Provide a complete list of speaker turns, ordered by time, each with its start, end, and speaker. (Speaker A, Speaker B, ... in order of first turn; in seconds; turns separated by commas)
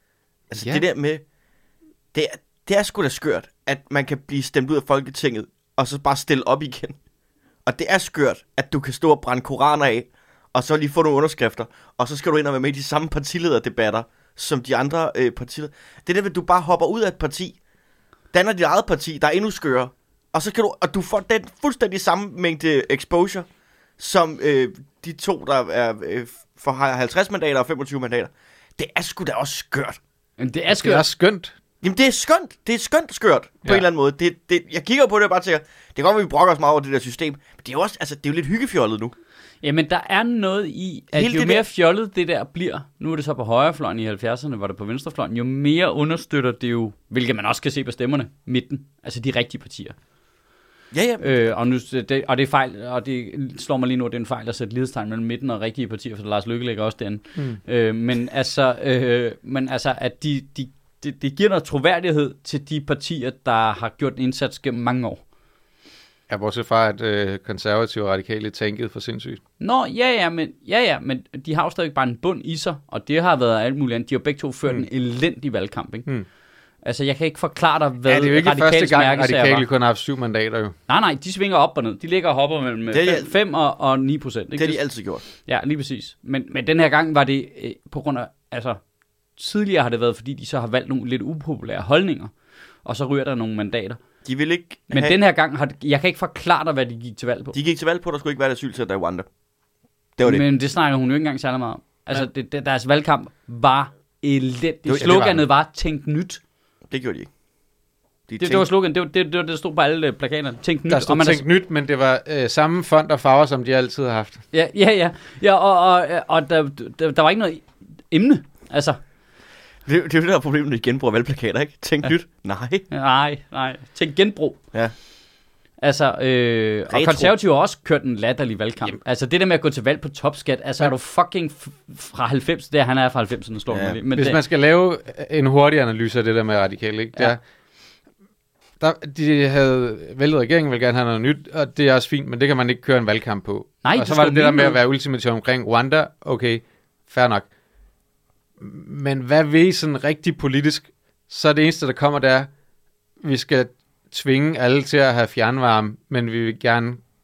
Speaker A: 0.5-1.2, Speaker B: 0.6-0.8, Speaker A: 2.1-7.0, Speaker A: 7.7-17.6, Speaker A: 18.3-23.4, Speaker A: 24.0-30.0, Speaker C: 30.4-31.1, Speaker B: 30.7-31.5, Speaker A: 31.8-39.1, Speaker C: 39.6-50.0, Speaker A: 41.1-41.6, Speaker A: 50.9-51.4, Speaker C: 51.2-65.2, Speaker B: 66.3-69.4, Speaker C: 69.6-76.1, Speaker C: 76.8-79.6, Speaker B: 78.0-80.7, Speaker C: 80.9-84.8, Speaker A: 82.9-83.3, Speaker A: 84.5-85.2, Speaker C: 85.4-88.8, Speaker C: 89.4-92.3, Speaker C: 92.8-94.0, Speaker A: 94.2-95.2, Speaker C: 94.9-97.5, Speaker A: 97.5-99.2, Speaker A: 100.2-100.5, Speaker C: 100.2-106.4, Speaker A: 104.8-105.2, Speaker B: 105.0-105.4, Speaker A: 106.9-107.3, Speaker A: 108.3-108.7, Speaker C: 108.4-111.4, Speaker B: 110.9-114.4, Speaker C: 114.5-119.0, Speaker A: 119.8-122.9, Speaker C: 122.9-124.6, Speaker C: 125.8-134.4, Speaker A: 126.9-127.3, Speaker A: 133.7-134.0, Speaker B: 134.1-137.4, Speaker B: 138.8-147.5, Speaker C: 143.8-144.8, Speaker B: 148.6-152.5, Speaker B: 153.2-157.0